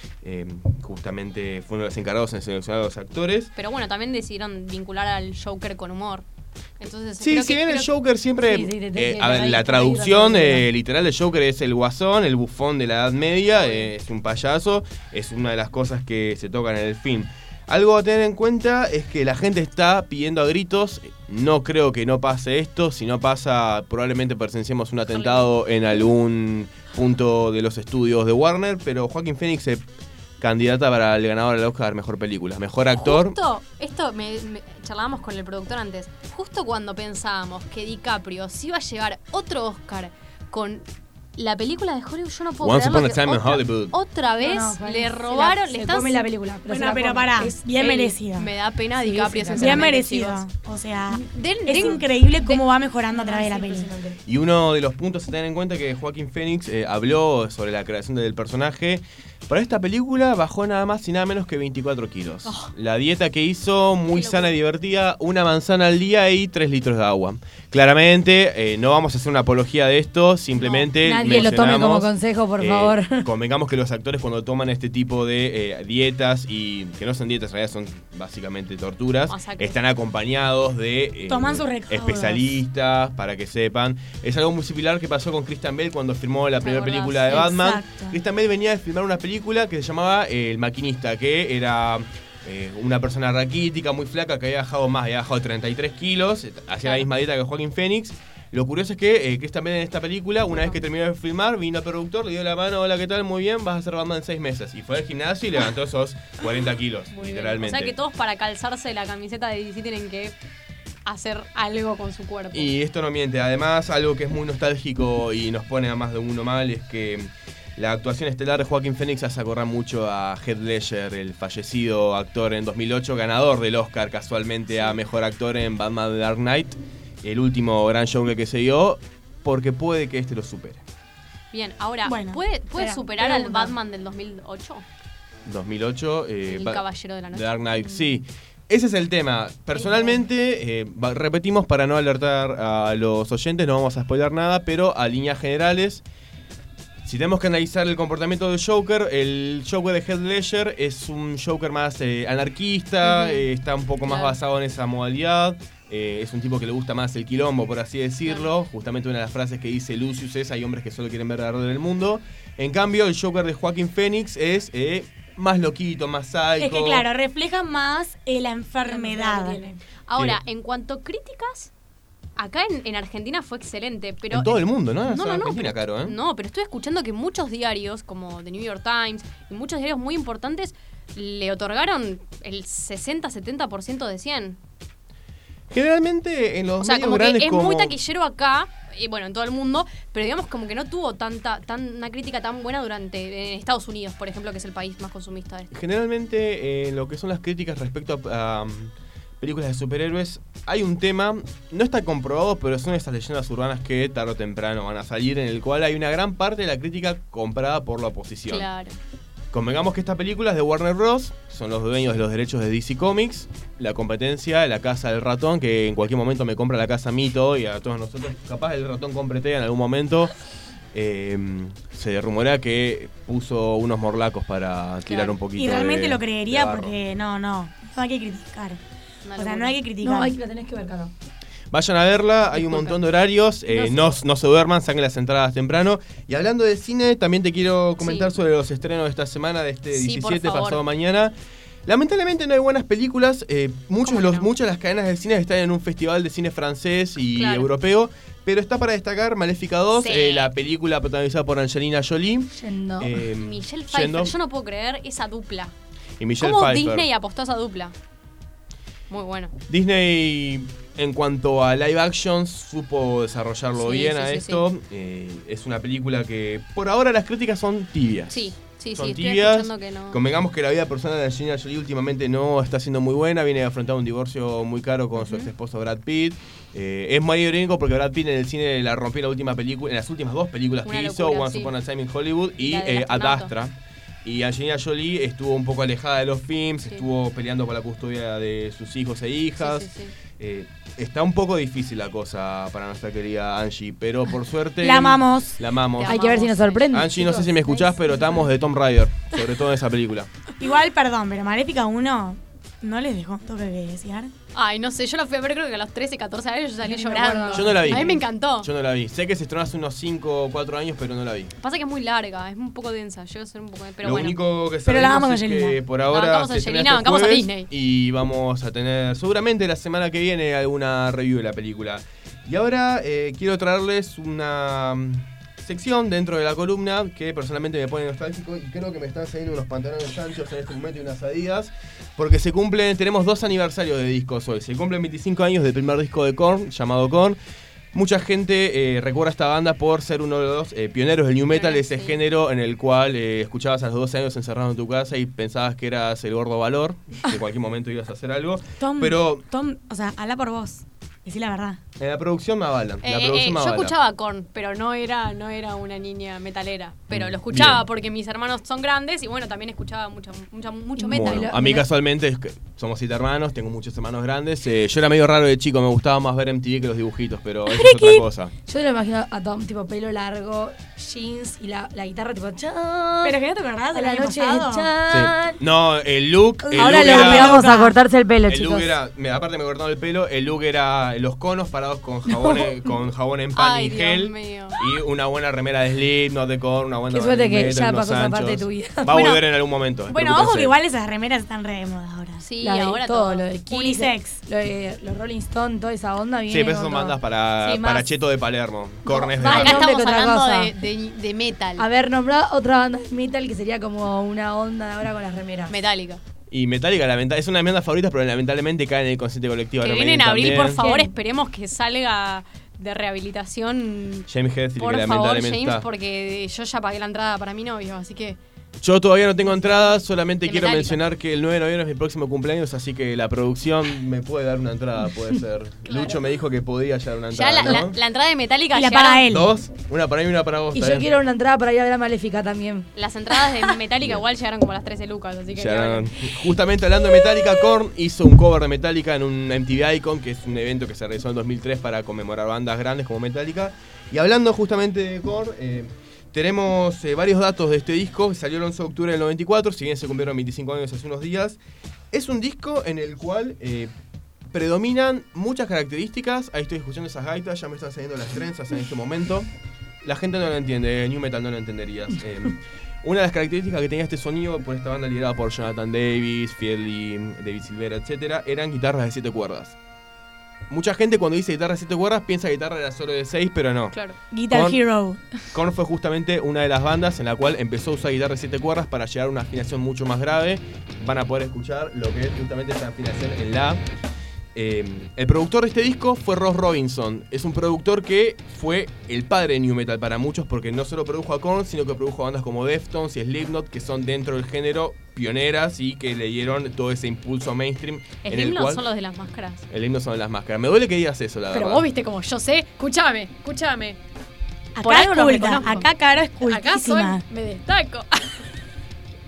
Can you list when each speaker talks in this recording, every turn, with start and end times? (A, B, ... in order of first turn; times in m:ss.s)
0:00.2-0:03.5 A
0:03.6-0:06.2 B
0:06.8-0:07.9 B
0:07.2-0:29.8 A
0:08.4-0:10.7 C
0:13.6-0:13.9 B
0:25.1-0:25.5 B
0:30.4-0:33.4 A
0:32.9-0:46.3 B
0:42.6-0:44.0 A
0:44.4-0:47.8 C
0:46.7-0:48.5 D
0:47.8-0:50.4 B
0:49.0-0:50.0 C
0:49.6-0:53.9 D
0:51.1-0:52.6 B
0:53.1-0:54.2 C
0:54.3-1:47.9 A
1:02.4-1:02.7 B
1:04.1-1:04.6 B
1:10.6-1:11.0 B
1:11.0-1:13.3 C
1:19.3-1:19.8 B
1:21.3-1:22.4 D
1:26.6-1:27.6 B
1:27.3-1:28.2 D
1:36.8-1:37.1 B
1:40.5-1:40.8 B
1:47.1-1:50.4 B
1:51.1-1:52.7 B
1:52.5-2:10.8 A
2:04.7-2:05.0 B
2:11.5-2:14.8 B
2:12.0-2:13.7 D
2:15.5-2:26.0 A
2:16.4-2:17.5 B
2:19.7-2:20.2 B
2:27.0-2:47.0 A
2:33.0-2:33.5 B
2:34.0-2:34.4 B
2:38.2-2:38.5 B
2:46.6-2:49.6 D
2:48.8-2:49.8 C
2:50.1-2:51.7 B
2:52.4-3:04.6 B
2:54.3-2:56.1 A
3:05.7-3:07.9 A
3:06.8-3:15.7 B
3:15.7-3:28.7 A
3:28.5-3:29.0 B
3:29.5-3:40.3 A
3:40.9-3:47.0 A
3:45.1-3:45.4 B
3:45.5-3:48.8 D
3:49.2-3:49.8 B
3:49.3-3:50.3 D
3:50.0-3:51.1 C
3:51.7-4:01.3 A
3:52.5-3:53.0 B
3:53.7-3:54.2 B
3:58.0-3:58.3 B
3:59.9-4:00.8 B
4:01.9-4:14.3 A
4:04.0-4:04.5 B
4:07.3-4:07.7 B
4:09.9-4:10.5 B
4:12.5-4:13.2 C
4:13.4-4:15.7 B
4:16.2-4:17.1 A
4:16.4-4:17.9 B
4:19.1-4:19.6 B
4:19.7-4:56.4 A
4:23.8-4:24.7 B
4:28.3-4:30.2 B
4:35.2-4:35.5 B
4:40.8-4:41.8 B
4:42.6-4:43.5 B
4:49.6-4:50.2 B
4:54.8-4:55.6 D
4:56.0-4:56.9 B
4:56.0-4:58.5 C
4:56.9-5:00.3 A
5:00.6-5:04.3 D
5:04.5-5:08.7 B
5:06.8-5:08.2 C
5:07.5-5:11.5 A
5:11.6-5:14.4 B
5:14.0-5:37.4 A
5:14.8-5:15.8 D
5:16.1-5:17.7 B
5:37.9-5:49.4 A
5:41.5-5:42.2 B
5:48.8-5:51.8 D
5:52.0-5:53.9 A
5:53.0-6:01.6 B
5:57.1-5:57.8 A
6:01.0-6:01.9 C
6:01.1-6:08.5 A
6:07.7-6:13.4 C
6:13.2-6:14.9 D
6:13.9-6:15.6 C
6:15.1-6:17.7 A
6:16.6-6:19.0 C
6:16.8-6:18.0 D
6:18.5-6:30.8 A
6:22.3-6:22.8 C
6:23.5-6:24.8 B
6:27.1-6:29.3 C
6:29.1-6:29.4 B
6:30.1-6:32.5 D
6:32.4-6:34.0 B
6:32.6-6:37.2 C
6:33.7-6:34.4 D
6:36.5-6:40.0 A
6:37.6-6:37.9 B
6:37.7-6:38.0 C
6:39.1-6:40.7 C
6:39.4-6:41.8 B
6:41.8-6:45.8 C
6:45.7-6:46.2 B
6:46.5-6:50.9 A
6:49.8-6:54.3 B
6:50.5-6:51.1 C
6:54.3-6:55.8 A
6:54.8-6:58.4 B
6:58.8-7:08.0 A
6:59.4-7:01.0 B
7:05.8-7:06.2 B
7:07.3-7:09.3 B
7:08.7-7:09.5 D
7:09.3-7:11.1 A
7:10.7-7:12.9 C
7:13.0-7:16.2 B
7:15.6-7:31.6 A
7:32.1-7:33.9 A
7:34.5-7:39.5 A
7:40.0-7:49.8 A
7:50.7-7:54.0 A
7:53.9-7:54.2 B
7:54.3-7:55.3 D
7:54.5-7:54.8 A
7:55.5-8:03.8 A
8:04.6-8:18.8 A
8:18.2-8:19.6 B
8:19.7-8:21.8 A
8:21.5-8:24.0 B
8:24.8-8:27.2 D
8:24.8-8:25.9 B
8:26.4-8:28.5 B